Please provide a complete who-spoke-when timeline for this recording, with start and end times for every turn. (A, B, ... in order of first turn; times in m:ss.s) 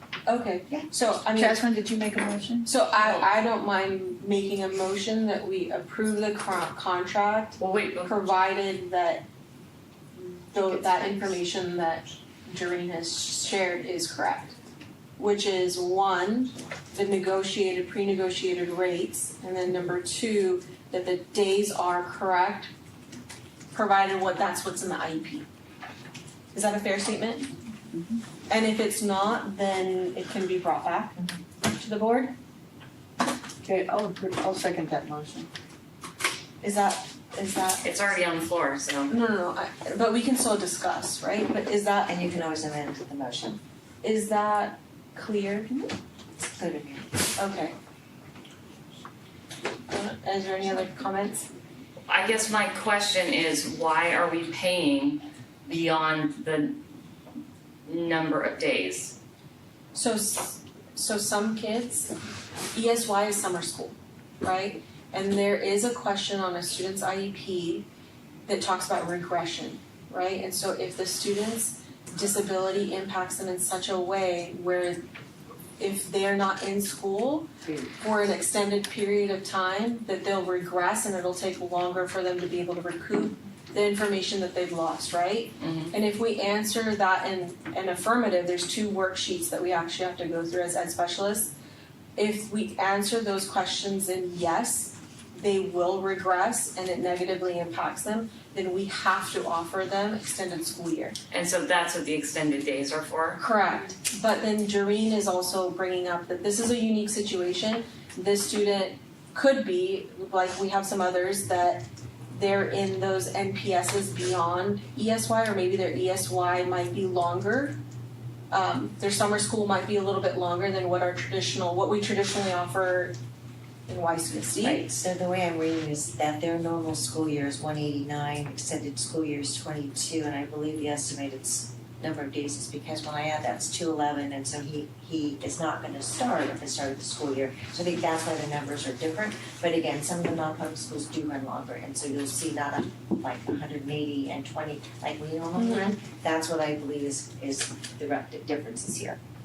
0:00.2-0:01.6 A
0:01.3-0:02.7 B
0:02.6-0:09.2 A
0:07.6-0:08.3 C
0:10.2-0:14.6 A
0:15.2-0:22.7 A
0:23.7-0:25.4 A
0:26.5-0:27.5 A
0:28.5-0:32.3 A
0:33.6-0:35.5 B
0:36.6-0:37.9 A
0:37.8-0:39.1 C
0:39.1-0:42.1 A
0:42.1-0:43.6 D
0:44.0-0:45.9 A
0:46.4-0:47.1 D
0:47.4-0:47.8 A
0:49.9-0:51.5 A
0:52.1-0:56.8 C
0:57.8-0:59.2 C
0:59.9-1:02.1 A
1:02.7-1:07.9 A
1:08.4-1:15.0 A
1:15.8-1:31.5 A
1:25.6-1:25.9 C
1:32.2-1:41.2 A
1:41.3-1:43.4 C
1:43.4-1:57.8 A
1:58.5-2:03.2 A
2:03.9-2:04.8 A
2:04.6-2:29.2 D
2:25.6-2:25.9 A